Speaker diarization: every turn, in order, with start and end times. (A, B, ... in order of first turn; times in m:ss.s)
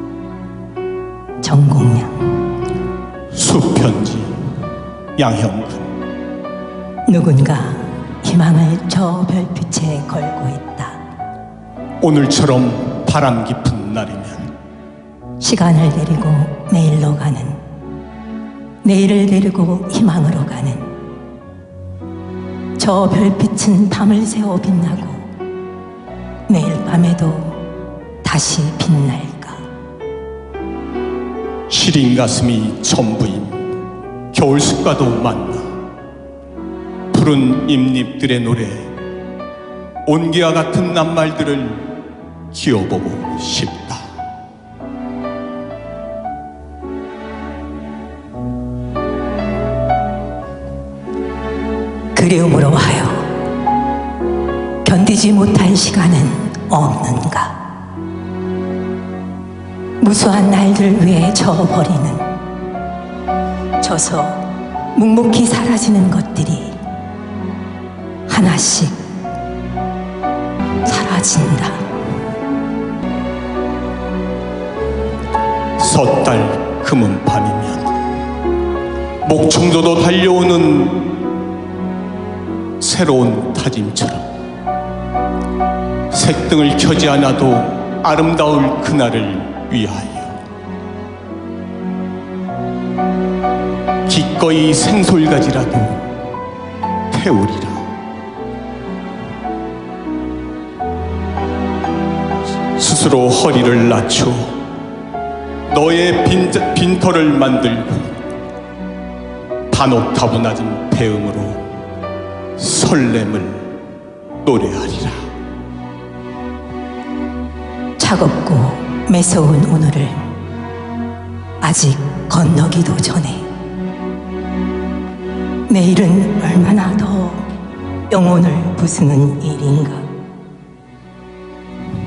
0:01.4-0:02.5 A
0:03.3-0:04.4 B
0:05.2-0:05.9 B
0:07.0-0:11.0 A
0:12.0-0:14.5 B
0:15.4-0:17.6 A
0:18.8-0:20.9 A
0:22.8-0:25.2 A
0:26.5-0:27.6 A
0:28.2-0:29.6 A
0:31.7-0:33.7 B
0:34.3-0:35.7 B
0:37.1-0:39.0 B
0:40.0-0:41.9 B
0:42.5-0:44.0 B
0:52.1-0:53.3 A
0:54.8-0:57.6 A
1:00.0-1:02.3 A
1:03.8-1:06.8 A
1:08.3-1:09.0 A
1:10.8-1:11.9 A
1:15.8-1:17.9 B
1:19.2-1:21.2 B
1:22.8-1:24.3 B
1:26.1-1:30.4 B
1:34.0-1:36.1 B
1:37.1-1:37.9 B
1:42.8-1:44.6 B
1:45.7-1:48.2 B
1:49.7-1:51.6 B
1:52.6-1:53.7 B
1:54.4-1:55.2 B
1:58.0-2:00.3 A
2:01.6-2:03.5 A
2:05.7-2:07.5 A
2:08.1-2:10.1 A